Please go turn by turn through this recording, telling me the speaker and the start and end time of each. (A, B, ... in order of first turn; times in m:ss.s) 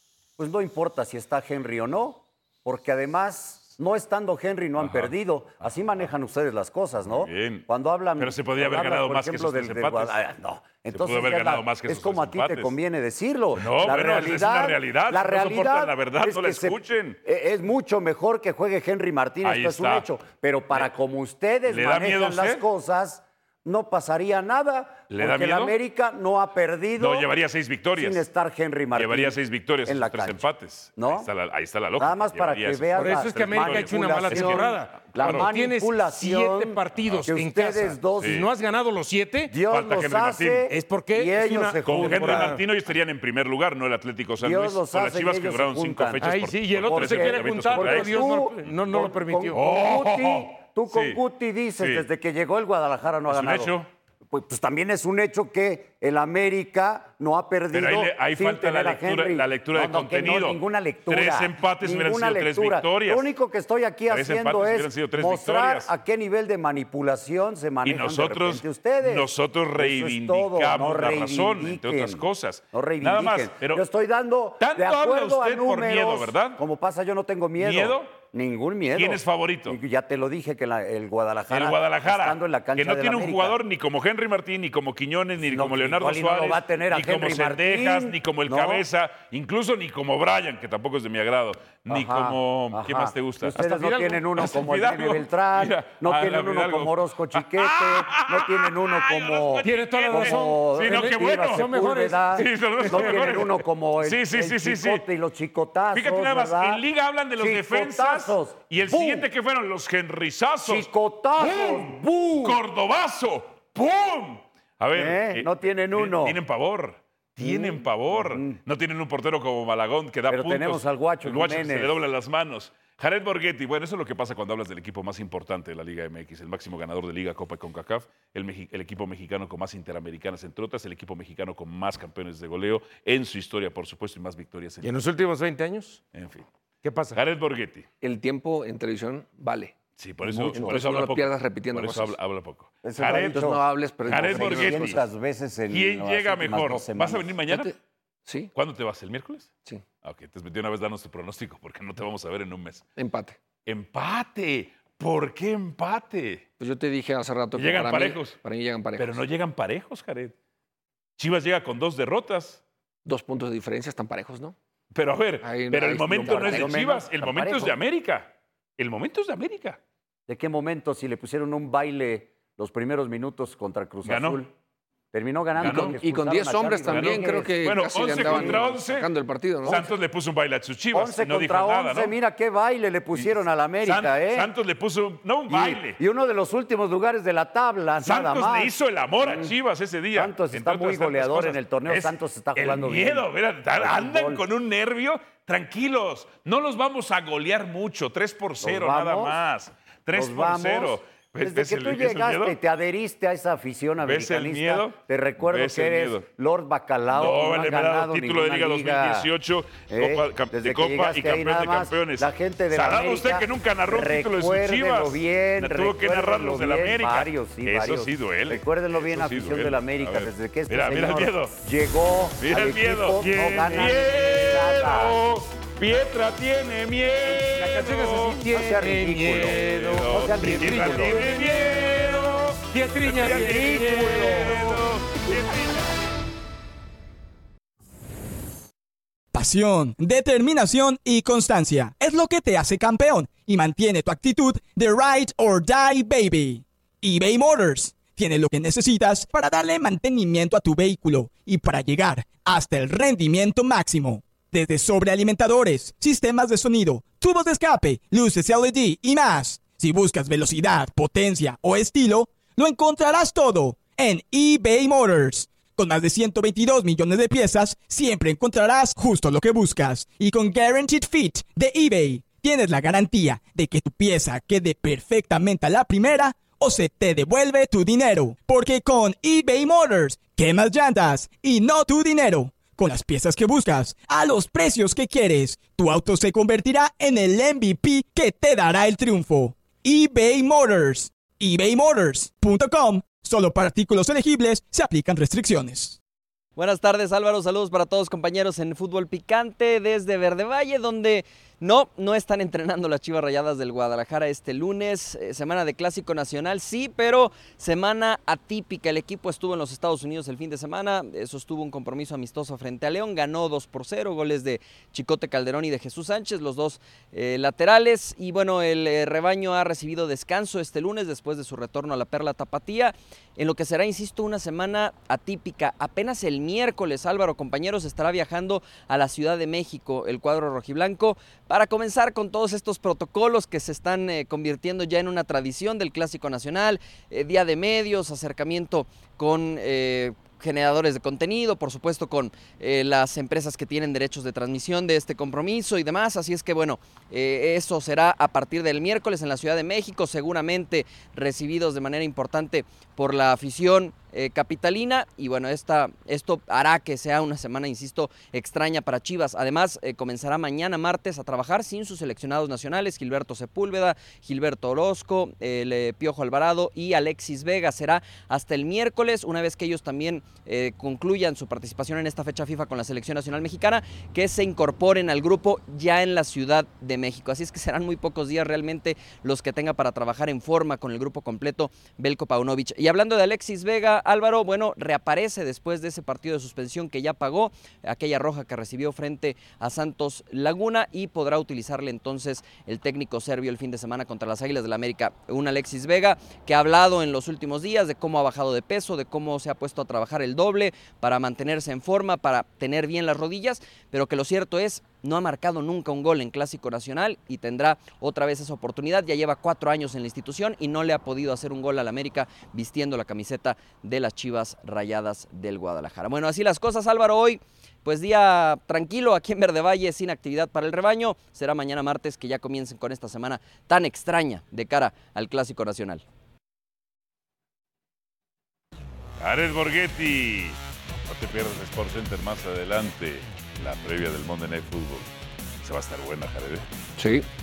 0:00.4-0:27.3 A
0:04.8-0:05.1 B
0:07.0-0:07.7 B
0:08.2-0:10.2 B
0:10.9-0:12.8 B
0:13.5-0:17.2 B
0:19.4-0:20.1 B
0:21.7-0:22.6 B
0:25.1-0:25.8 B
0:27.0-0:28.2 B
0:27.9-0:30.4 A
0:28.9-0:35.5 B
0:31.0-0:31.3 A
0:32.0-0:38.4 A
0:33.0-0:39.5 C
0:38.2-0:38.5 B
0:39.5-0:42.6 A
0:39.7-0:40.7 B
0:40.7-0:42.6 C
0:41.9-0:48.7 B
0:44.4-0:53.8 A
0:46.2-0:49.6 C
0:49.5-0:51.2 B
0:51.8-0:52.1 B
0:53.3-0:53.9 B
0:54.3-1:23.6 A
0:57.7-1:03.3 B
1:04.1-1:05.9 B
1:07.8-1:13.8 B
1:14.6-1:16.6 B
1:17.6-1:18.2 B
1:18.9-1:19.8 B
1:21.5-1:33.6 B
1:25.4-1:28.8 A
1:31.9-1:46.8 A
1:33.6-1:34.2 C
1:34.4-1:41.7 B
1:39.6-1:43.5 C
1:42.4-1:45.0 B
1:45.9-1:50.9 B
1:47.4-1:49.3 A
1:50.6-1:52.4 A
1:51.4-2:15.0 B
1:54.9-1:56.4 A
1:57.4-1:58.6 A
2:00.3-2:01.9 A
2:14.8-2:16.0 C
2:16.1-2:16.5 B
2:16.8-2:17.2 C
2:17.1-2:17.9 B
2:18.0-2:19.8 D
2:20.0-2:25.0 B
2:20.4-2:22.2 D
2:22.8-2:27.4 A
2:23.0-2:25.0 D
2:25.7-2:27.7 B
2:27.5-2:27.8 D
2:28.3-2:28.5 D
2:28.6-2:29.5 B
2:30.0-2:32.8 B
2:33.0-2:33.4 D
2:33.7-2:36.4 B
2:36.6-2:39.2 D
2:37.6-2:38.4 B
2:39.0-2:40.3 B
2:41.2-2:42.6 B
2:43.0-2:44.6 D
2:44.9-2:49.8 B
2:45.4-2:46.8 D
2:46.2-2:47.8 A
2:50.3-2:54.5 A
2:54.0-2:54.4 B
2:55.1-2:58.6 A
2:55.6-2:56.0 B
2:55.6-2:59.9 D
2:56.9-2:59.1 B
2:59.6-3:02.2 B
3:00.9-3:04.5 A
3:03.1-3:06.0 B
3:05.5-3:09.5 A
3:08.0-3:22.6 B
3:10.2-3:13.2 A
3:13.8-3:14.4 A
3:18.6-3:19.4 A
3:20.1-3:29.3 A
3:24.0-3:26.2 B
3:27.1-3:41.6 B
3:29.9-3:45.2 A
3:42.4-3:48.4 B
3:43.3-3:43.9 C
3:47.5-3:54.8 C
3:48.5-3:51.2 A
3:49.4-3:55.8 B
3:53.2-3:54.8 A
3:59.3-4:56.0 E
4:56.6-7:06.0 F
7:09.2-7:15.1 B
7:15.6-7:16.7 B
7:17.0-7:17.3 D